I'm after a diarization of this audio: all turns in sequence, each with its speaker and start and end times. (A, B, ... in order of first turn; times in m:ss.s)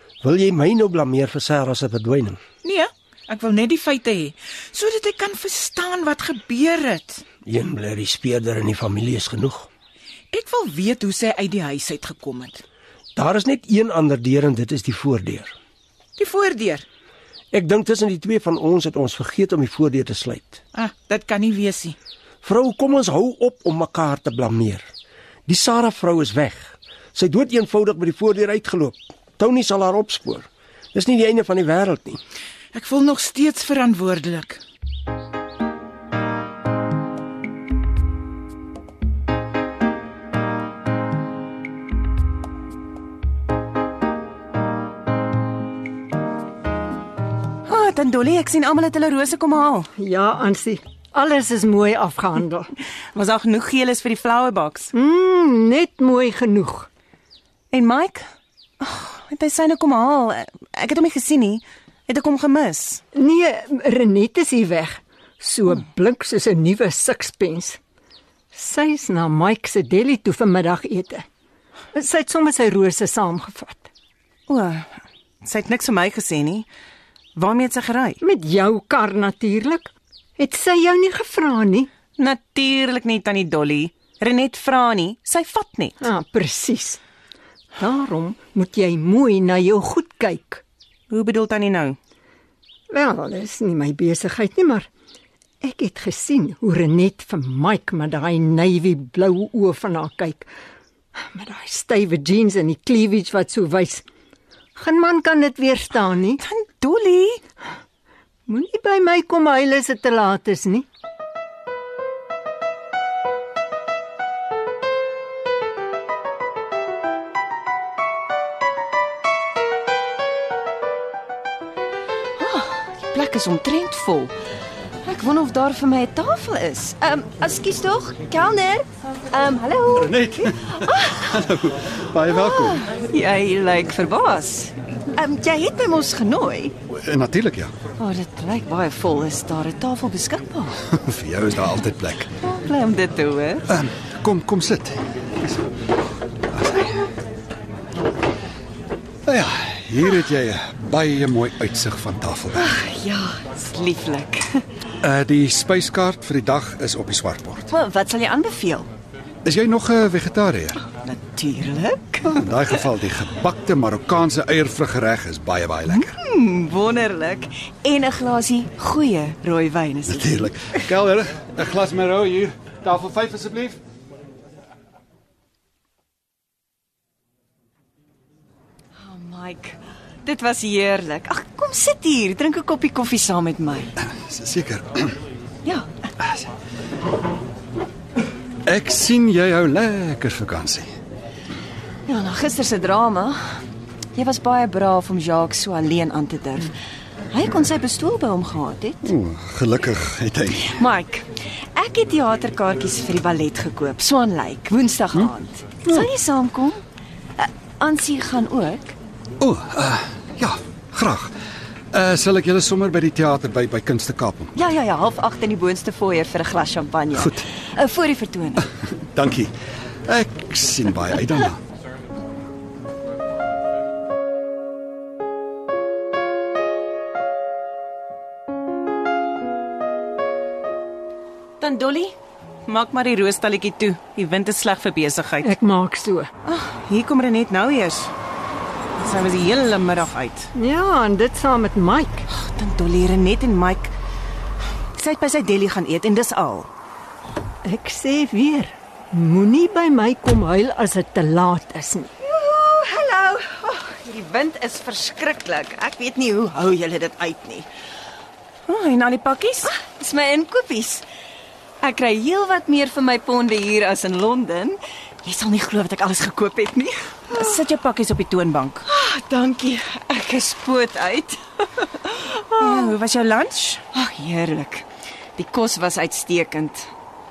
0:00.2-0:02.4 A
0:02.6-0:07.2 B
0:07.4-0:09.7 A
0:10.3-0:12.6 B
0:13.2-0:15.5 A
0:16.2-0:16.8 B
0:17.5-0:20.6 A
0:20.7-0:22.0 B
0:22.4-0:24.9 A
0:25.5-0:32.2 A
0:32.7-0:34.6 B
0:47.7-0:49.9 C
0:50.0-0:52.7 D
0:53.1-0:54.9 C
0:54.9-0:56.9 D
0:57.7-0:58.2 C
0:58.8-1:03.0 C
1:03.1-1:07.8 D
1:08.5-1:11.2 D
1:11.9-1:13.9 D
1:14.5-1:14.9 C
1:15.4-1:16.7 C
1:17.4-1:18.2 C
1:18.2-1:21.9 D
1:22.2-1:26.0 C
1:26.0-1:27.0 D
1:27.8-1:30.6 D
1:31.1-1:32.0 C
1:32.9-1:34.9 D
1:35.6-1:40.5 D
1:41.2-1:44.0 D
1:44.8-1:46.4 D
1:46.4-1:47.4 C
1:48.5-1:50.9 D
2:02.4-2:04.3 E
2:05.0-2:11.3 E
2:10.0-2:12.8 F
2:12.3-2:16.7 E
2:16.9-2:17.7 F
2:18.0-2:20.8 E
2:20.9-2:22.3 F
2:22.3-2:23.7 E
2:23.7-2:25.6 F
2:26.5-2:27.1 F
2:29.3-2:32.7 F
2:32.5-2:34.6 E
2:35.0-2:37.6 F
2:37.7-2:38.9 E
2:39.4-2:40.8 F
2:40.9-2:42.4 E
2:42.3-2:46.2 F
2:45.9-2:50.8 E
2:50.1-2:53.8 F
2:59.0-3:03.9 E
3:04.0-3:05.1 F
3:08.7-3:10.9 F
3:12.1-3:13.6 E
3:14.2-3:16.7 E
3:17.3-3:19.1 E
3:19.0-3:20.8 F
3:20.6-3:26.8 E
3:27.4-3:28.9 E
3:29.4-3:31.3 F
3:31.9-3:34.5 F
3:34.6-3:38.6 E
3:37.2-3:37.4 F
3:39.1-3:39.5 F
3:40.1-3:41.6 F
3:51.6-3:52.1 C
3:52.7-3:55.5 C
3:55.4-3:56.3 D
3:56.4-3:58.1 C
3:59.0-4:00.5 C
4:00.6-4:02.3 D
4:02.3-4:03.9 C
4:05.0-4:06.7 C
4:07.6-4:12.1 D
4:12.2-4:17.7 E
4:18.7-4:19.7 C
4:19.6-4:21.0 E
4:21.8-4:27.6 E
4:27.3-4:28.8 C
4:28.9-4:33.0 E
4:32.6-4:33.8 C
4:33.9-4:34.8 E
4:35.4-4:36.9 E